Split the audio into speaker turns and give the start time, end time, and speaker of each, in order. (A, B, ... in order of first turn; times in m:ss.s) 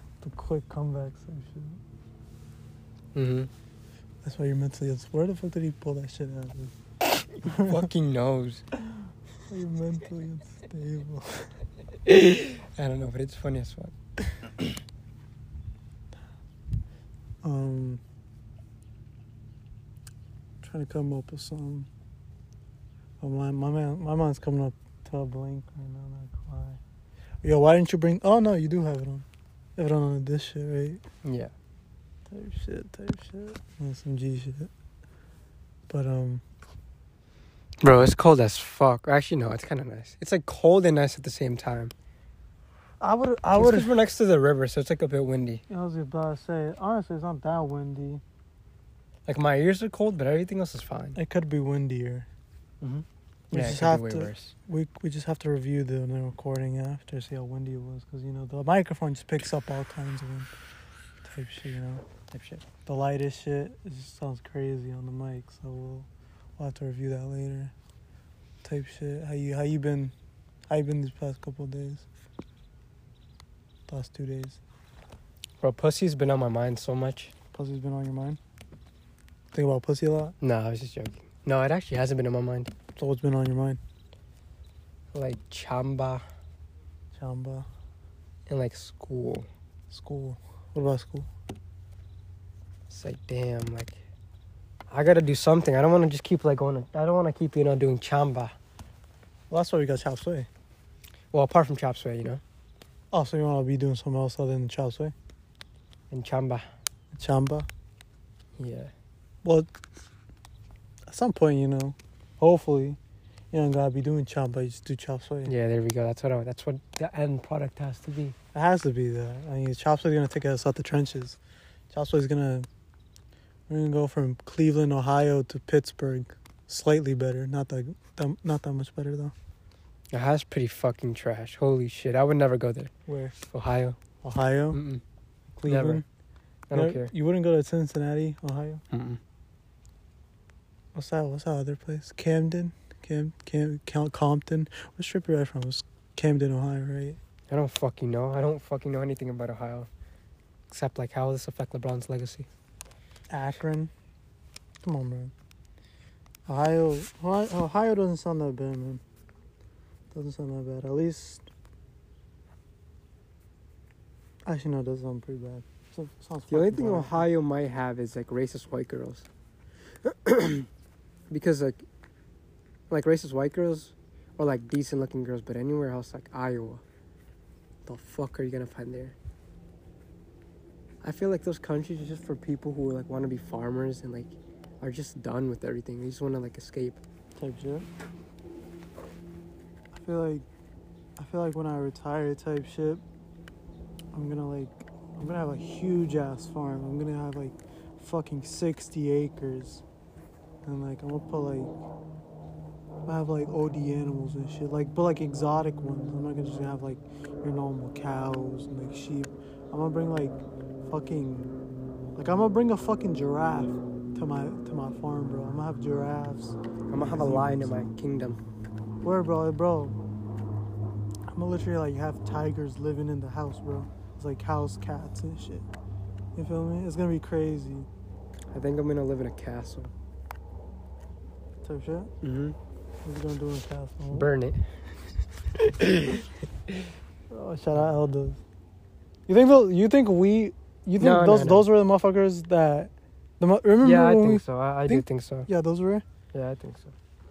0:00.2-0:01.8 A
0:03.2-0:03.5 B
0:04.2-0:06.7 A
0:07.4-0:07.9 A
0:07.5-0:08.6 B
0:09.5-0:11.5 A
0:12.1-0:13.9 B
0:17.4-0:18.0 A
0:20.6-0:21.9 A
0:23.2-0:26.8 A
0:27.4-0:29.3 A
0:29.8-0:31.0 A
0:31.2-0:31.5 B
0:32.3-0:34.7 A
0:35.9-0:36.4 A
0:37.8-0:41.9 B
0:43.0-0:43.9 A
0:43.6-0:45.6 B
0:45.7-0:48.2 A
0:49.3-0:51.2 B
0:51.2-0:52.3 A
0:52.8-0:54.5 B
0:53.5-1:00.5 A
1:01.2-1:02.0 A
1:02.3-1:02.6 B
1:02.8-1:07.7 A
1:08.6-1:10.1 A
1:10.7-1:12.1 A
1:13.9-1:14.6 A
1:15.6-1:17.3 B
1:17.5-1:18.4 A
1:19.5-1:20.3 A
1:20.4-1:22.7 B
1:23.0-1:23.8 A
1:25.1-1:26.2 B
1:27.1-1:27.7 A
1:28.5-1:29.5 B
1:29.9-1:31.3 A
1:32.9-1:34.0 B
1:34.9-1:38.6 B
1:39.5-1:40.5 A
1:41.3-1:42.4 B
1:43.1-1:45.1 A
1:46.1-1:46.7 B
1:47.1-1:47.7 A
1:48.6-1:48.9 B
1:51.1-1:53.0 A
1:53.5-1:55.5 A
1:55.5-1:58.4 B
1:58.5-2:01.4 A
2:01.9-2:02.7 A
2:03.7-2:09.3 A
2:10.1-2:12.9 B
2:13.1-2:13.4 A
2:13.5-2:14.0 B
2:14.2-2:14.8 A
2:14.7-2:15.0 B
2:15.6-2:16.0 A
2:15.6-2:16.0 B
2:16.7-2:17.1 B
2:16.7-2:18.8 A
2:18.9-2:19.2 B
2:21.0-2:27.2 A
2:27.5-2:29.9 B
2:30.7-2:32.5 B
2:33.3-2:33.9 A
2:34.8-2:35.3 A
2:36.5-2:39.0 A
2:40.1-2:41.5 A
2:44.5-2:47.3 A
2:46.5-2:49.3 B
2:50.0-2:50.7 B
2:51.3-2:51.8 B
2:52.9-2:56.8 B
2:57.9-2:59.2 B
3:01.0-3:07.0 B
3:07.4-3:07.9 A
3:09.9-3:10.4 A
3:11.2-3:13.0 A
3:14.1-3:19.8 A
3:20.6-3:21.7 A
3:23.1-3:31.6 A
3:32.2-3:37.8 A
3:36.9-3:38.4 B
3:39.0-3:40.0 A
3:41.3-3:45.7 A
3:46.4-3:47.9 A
3:48.5-3:49.9 B
3:51.6-3:52.1 A
3:52.2-3:52.6 B
3:53.0-3:54.3 A
3:54.1-3:54.6 B
3:55.6-3:56.3 B
3:57.3-3:58.4 A
3:59.3-4:06.0 A
4:01.0-4:01.7 B
4:03.8-4:05.5 B
4:06.3-4:07.0 B